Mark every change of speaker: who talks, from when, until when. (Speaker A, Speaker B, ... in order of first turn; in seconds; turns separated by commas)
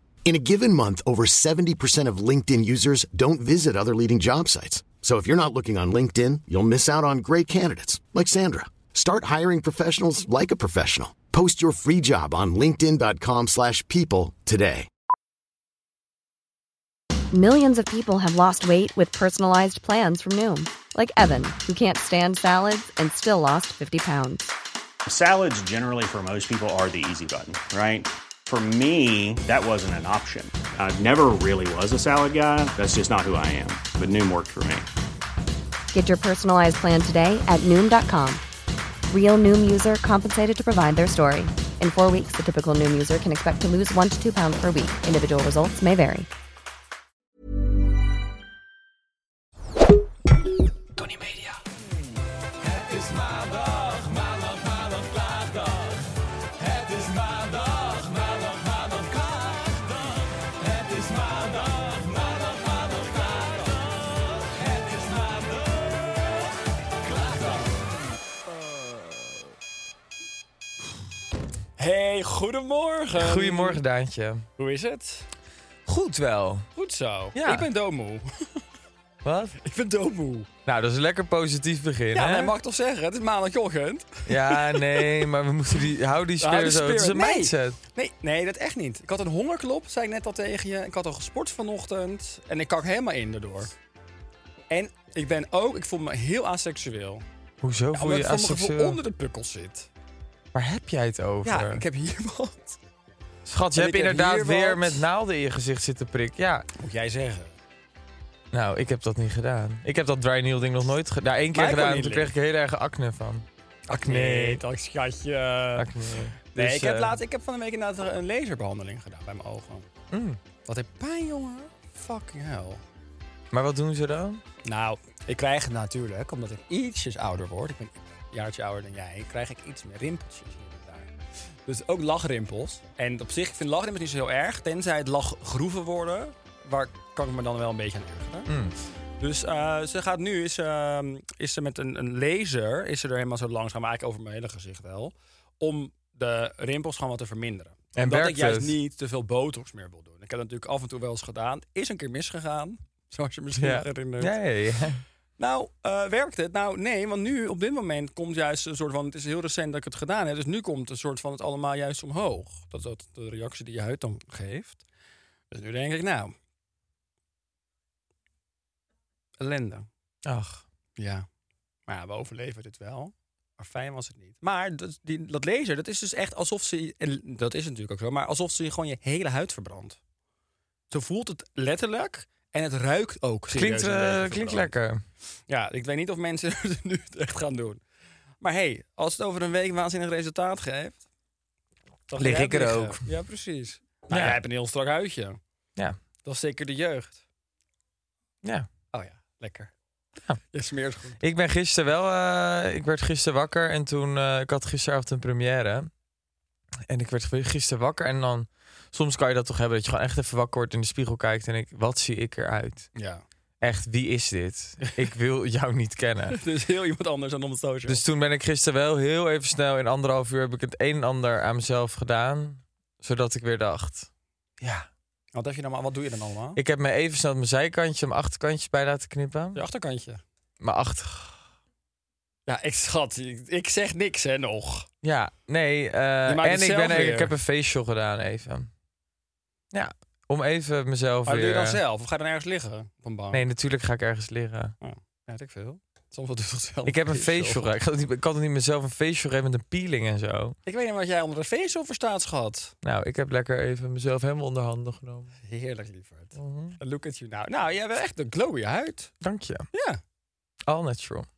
Speaker A: 0.2-14.9, Speaker B: 17.3-24.5, Speaker C: 25.1-34.9, Speaker B: 35.9-38.4, Speaker B: 39.1-46.3, Speaker D: 52.6-56.0, Speaker D: 56.6-63.8, Speaker D: 64.4-65.8, Speaker E: 71.8-73.8, Speaker D: 73.2-74.5, Speaker E: 74.6-75.3, Speaker D: 75.9-76.7, Speaker E: 76.8-78.6, Speaker D: 77.3-77.7, Speaker D: 79.2-79.6, Speaker E: 79.6-80.5, Speaker D: 80.7-82.5, Speaker E: 82.1-85.3, Speaker D: 84.3-87.8, Speaker E: 86.4-93.7, Speaker E: 94.7-97.2, Speaker D: 97.6-99.0, Speaker E: 97.9-99.9, Speaker D: 100.5-101.8, Speaker E: 101.5-102.8, Speaker D: 103.5-106.7, Speaker E: 103.8-105.1, Speaker E: 106.8-107.6, Speaker D: 108.5-113.5, Speaker E: 111.5-112.3, Speaker E: 113.9-119.9, Speaker D: 114.0-114.6, Speaker D: 115.8-117.2, Speaker D: 120.1-120.4, Speaker E: 120.7-122.8, Speaker D: 123.5-124.4, Speaker E: 124.7-131.1, Speaker E: 131.7-138.5, Speaker D: 138.5-138.8, Speaker E: 139.2-154.4, Speaker D: 148.0-148.8, Speaker D: 153.6-155.0, Speaker E: 155.4-164.8, Speaker E: 165.5-166.3, Speaker E: 169.4-169.9, Speaker D: 170.2-170.6, Speaker E: 171.0-171.3, Speaker E: 171.9-180.0, Speaker E: 180.9-184.7, Speaker D: 183.5-185.0, Speaker E: 185.5-187.8, Speaker E: 188.4-191.0, Speaker E: 192.1-195.4, Speaker D: 192.2-193.1, Speaker D: 194.1-194.4, Speaker E: 196.2-197.2, Speaker E: 198.9-199.7, Speaker E: 200.5-201.2, Speaker D: 201.2-205.9, Speaker D: 206.9-212.9, Speaker E: 213.0-213.2, Speaker D: 213.6-216.4, Speaker E: 216.3-218.0, Speaker D: 217.9-224.1, Speaker E: 224.6-226.6, Speaker D: 226.6-229.6, Speaker E: 229.6-230.2, Speaker D: 230.6-231.4, Speaker E: 232.5-234.9, Speaker D: 235.0-238.7, Speaker E: 236.3-237.3, Speaker D: 239.7-241.8, Speaker E: 241.3-243.4, Speaker D: 243.3-244.7, Speaker E: 244.8-247.7, Speaker D: 246.9-250.6, Speaker E: 250.7-252.7, Speaker D: 252.8-255.3, Speaker E: 255.4-259.1, Speaker D: 256.4-256.8, Speaker D: 259.2-259.7, Speaker E: 259.7-260.0, Speaker D: 260.7-261.3